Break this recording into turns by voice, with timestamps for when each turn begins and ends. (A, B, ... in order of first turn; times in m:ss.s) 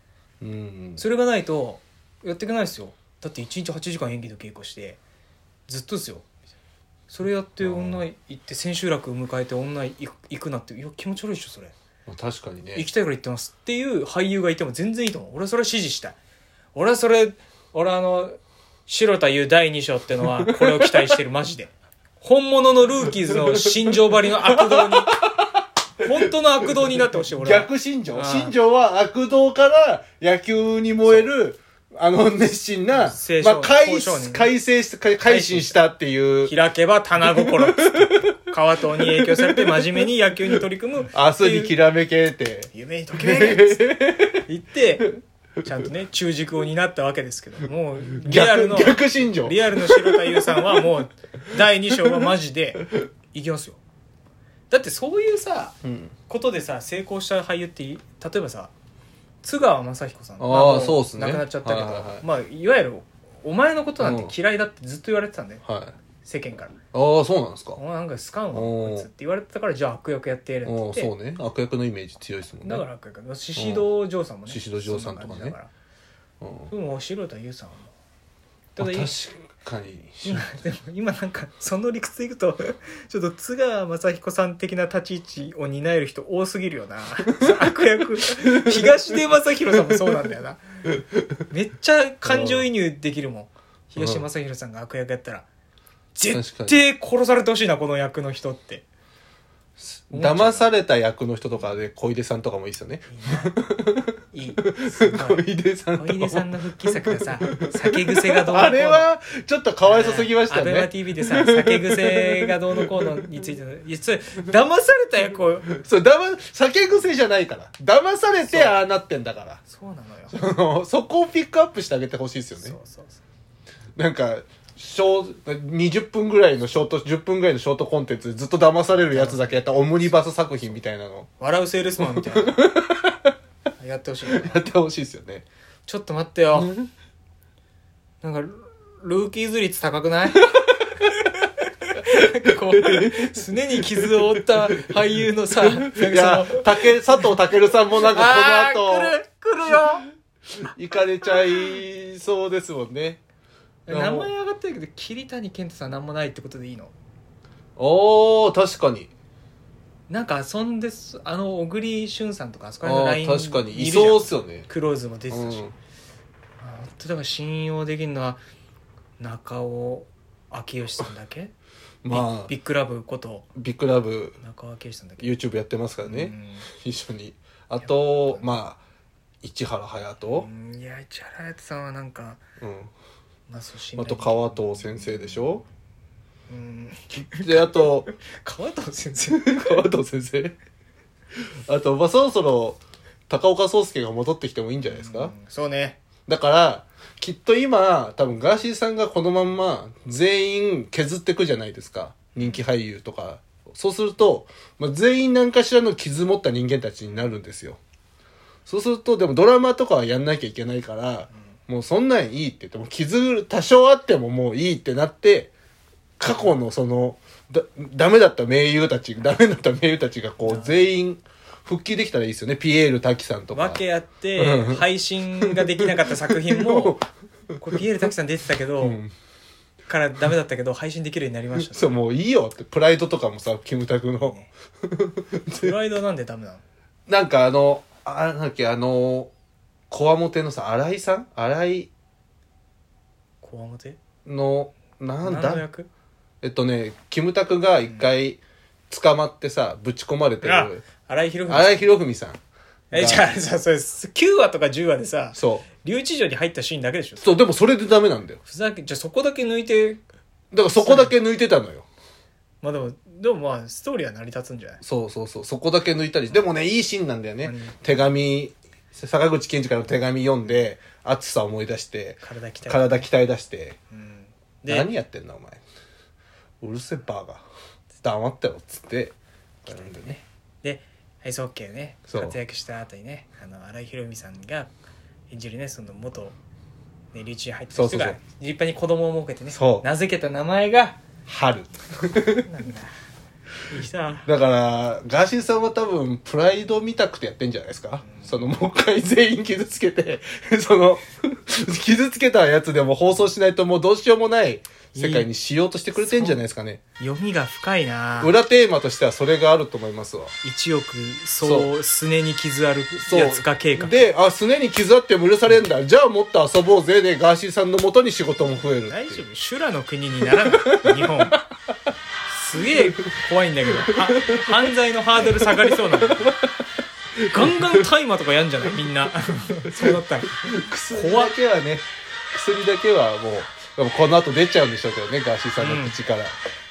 0:00.4-0:01.0 A
0:01.0-0:05.0 B
0:05.7-0:06.3 B
0:07.1-0:11.7 B
0:07.6-0:08.1 A
0:12.1-0:12.9 A
0:12.7-0:16.2 B
0:16.7-0:25.1 B
0:20.4-0:21.1 A
0:23.3-0:25.5 A
0:26.0-0:28.5 B
0:27.3-0:36.6 A
0:32.9-0:34.5 B
0:35.2-0:35.8 B
0:36.4-0:41.7 B
0:37.2-0:38.3 A
0:39.0-0:40.0 A
0:41.1-0:44.4 A
0:42.7-0:43.9 B
0:44.4-0:45.1 B
0:45.6-0:53.8 B
0:48.2-0:50.5 A
0:54.7-0:55.8 B
0:55.8-0:56.1 A
0:56.3-0:58.7 B
0:59.4-1:05.6 B
1:00.4-1:02.2 A
1:04.0-1:04.3 A
1:05.6-1:06.0 A
1:06.2-1:06.7 B
1:06.9-1:07.8 A
1:07.8-1:11.1 B
1:08.5-1:09.1 A
1:10.6-1:12.8 A
1:12.6-1:15.7 B
1:13.5-1:13.8 A
1:14.5-1:15.6 A
1:16.4-1:16.7 A
1:16.7-1:17.9 B
1:18.8-1:19.1 B
1:18.8-1:20.5 A
1:20.2-1:30.6 B
1:31.5-1:35.4 B
1:32.2-1:32.7 A
1:34.0-1:34.2 A
1:36.1-1:38.8 B
1:36.3-1:36.8 A
1:39.8-1:53.0 A
1:40.1-1:40.7 B
1:43.1-1:43.5 B
1:44.3-1:45.4 B
1:46.0-1:49.1 B
1:49.8-1:55.7 B
1:55.7-1:59.6 A
1:58.4-1:58.8 B
1:59.7-2:00.5 B
2:00.3-2:02.8 A
2:02.6-2:03.2 B
2:04.0-2:11.3 A
2:09.1-2:10.8 B
2:11.4-2:12.6 B
2:12.0-2:13.2 A
2:13.8-2:14.6 B
2:14.3-2:15.4 A
2:15.9-2:16.7 B
2:16.5-2:16.9 A
2:18.2-2:20.4 B
2:20.4-2:21.0 A
2:21.1-2:27.3 B
2:22.7-2:24.1 A
2:25.8-2:29.2 A
2:27.9-2:30.0 B
2:30.6-2:33.2 A
2:33.9-2:36.9 B
2:33.9-2:34.3 A
2:37.8-2:39.1 A
2:40.1-2:45.6 B
2:42.8-2:44.7 A
2:45.3-2:45.7 A
2:46.6-2:48.4 B
2:49.2-2:51.5 B
2:52.0-2:52.5 A
2:52.1-2:53.5 B
2:53.5-2:54.4 A
2:54.4-2:55.3 B
2:55.2-2:58.8 A
2:56.0-2:56.7 B
2:57.8-2:58.5 B
2:59.4-3:00.5 A
3:00.3-3:02.4 B
3:02.6-3:02.9 A
3:03.5-3:05.6 B
3:04.0-3:05.6 A
3:06.5-3:09.8 B
3:07.1-3:08.1 A
3:09.3-3:10.6 A
3:11.4-3:15.3 A
3:14.8-3:16.0 B
3:16.2-3:27.8 A
3:22.4-3:22.6 B
3:28.6-3:35.5 A
3:36.2-3:43.8 A
3:40.4-3:40.9 B
3:43.5-3:47.0 B
3:44.4-3:44.8 A
3:45.4-3:45.9 A
3:46.5-3:47.0 A
3:47.6-3:49.0 B
3:48.8-3:49.1 A
3:49.9-3:52.0 B
3:51.6-3:55.7 A
3:54.2-3:54.5 B
3:55.5-3:56.6 B
3:57.1-3:59.3 A
3:59.9-4:01.9 A
4:03.4-4:04.0 B
4:04.2-4:05.6 A
4:05.2-4:05.9 B
4:06.4-4:10.8 A
4:10.4-4:11.9 B
4:11.5-4:12.4 A
4:12.9-4:13.3 A
4:12.9-4:17.4 B
4:15.4-4:15.6 A
4:17.2-4:18.4 A
4:18.4-4:20.0 B
4:20.5-4:21.9 A
4:20.8-4:21.1 B
4:22.6-4:24.8 B
4:24.8-4:33.8 A
4:27.4-4:27.8 B
4:32.2-4:33.1 B
4:33.9-4:34.9 B
4:34.7-4:35.6 A
4:36.6-4:37.4 A
4:38.0-4:39.2 A
4:39.6-4:44.7 B
4:39.7-4:40.2 A
4:42.1-4:42.4 A
4:45.3-4:46.4 B
4:47.1-4:51.0 B
4:47.7-4:48.2 A
4:49.5-4:49.8 A
4:51.3-4:52.5 A
4:52.4-4:52.9 B
4:53.7-4:54.3 B
4:54.3-5:06.8 A
4:58.0-4:58.4 B
5:04.9-5:05.3 B
5:05.9-5:06.4 B
5:07.0-5:08.3 B
5:08.2-5:10.3 A
5:10.4-5:14.0 B
5:11.4-5:11.7 A
5:13.0-5:19.2 A
5:18.8-5:21.4 B
5:20.5-5:21.4 A
5:22.3-5:26.4 B
5:23.8-5:24.4 A
5:25.2-5:26.5 A
5:27.2-5:27.8 A
5:27.3-5:31.4 B
5:29.7-5:36.4 A
5:35.6-5:36.0 B